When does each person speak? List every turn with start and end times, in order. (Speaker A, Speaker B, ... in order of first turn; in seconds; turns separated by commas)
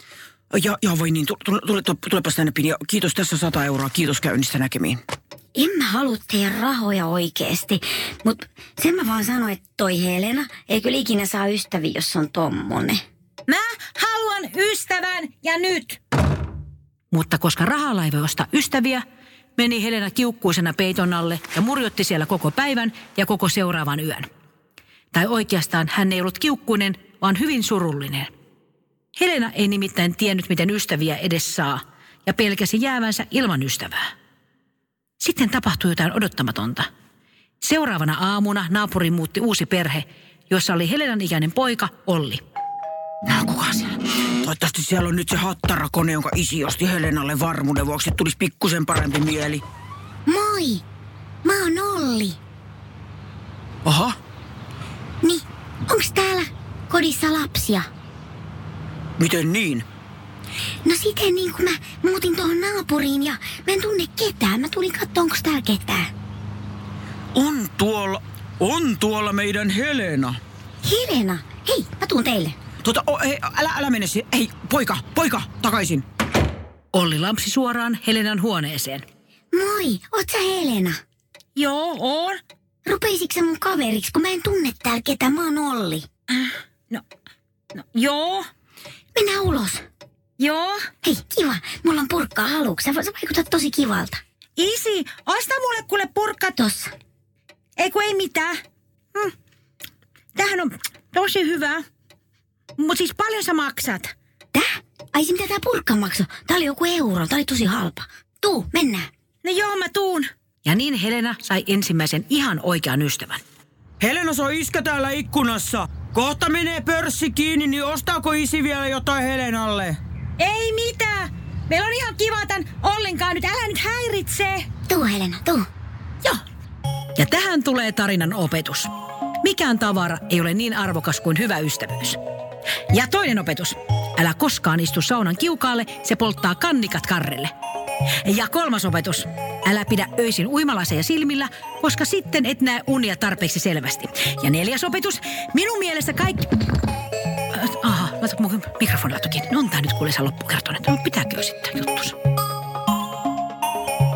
Speaker A: 0.5-5.0, Speaker B: 5.5-13.0, Speaker C: 13.5-16.0, Speaker C: 17.1-19.0, Speaker C: 19.6-24.3, Speaker C: 25.1-28.3, Speaker C: 29.1-34.1, Speaker C: 35.2-36.9, Speaker C: 37.6-42.4, Speaker A: 43.2-49.6, Speaker B: 50.3-50.8, Speaker B: 51.4-52.4, Speaker A: 53.9-54.1, Speaker B: 55.2-57.9, Speaker A: 59.2-59.9, Speaker B: 60.9-66.1, Speaker A: 67.3-70.4, Speaker B: 70.8-72.5, Speaker A: 72.8-76.0, Speaker C: 76.9-79.0, Speaker B: 79.5-81.0, Speaker C: 81.5-82.4, Speaker B: 82.8-86.1, Speaker C: 86.3-87.0, Speaker C: 87.7-88.5, Speaker B: 89.2-89.8, Speaker C: 90.4-90.8, Speaker B: 91.0-94.2, Speaker C: 94.6-96.6, Speaker B: 96.6-96.9, Speaker C: 97.8-98.5, Speaker C: 100.3-101.8, Speaker C: 102.8-104.1, Speaker B: 104.5-109.1, Speaker C: 109.4-113.4, Speaker A: 114.0-120.0, Speaker C: 120.4-124.7, Speaker B: 124.9-125.7, Speaker C: 127.2-128.9, Speaker C: 129.4-132.2, Speaker C: 132.9-137.5, Speaker C: 138.2-146.5, Speaker C: 147.5-152.2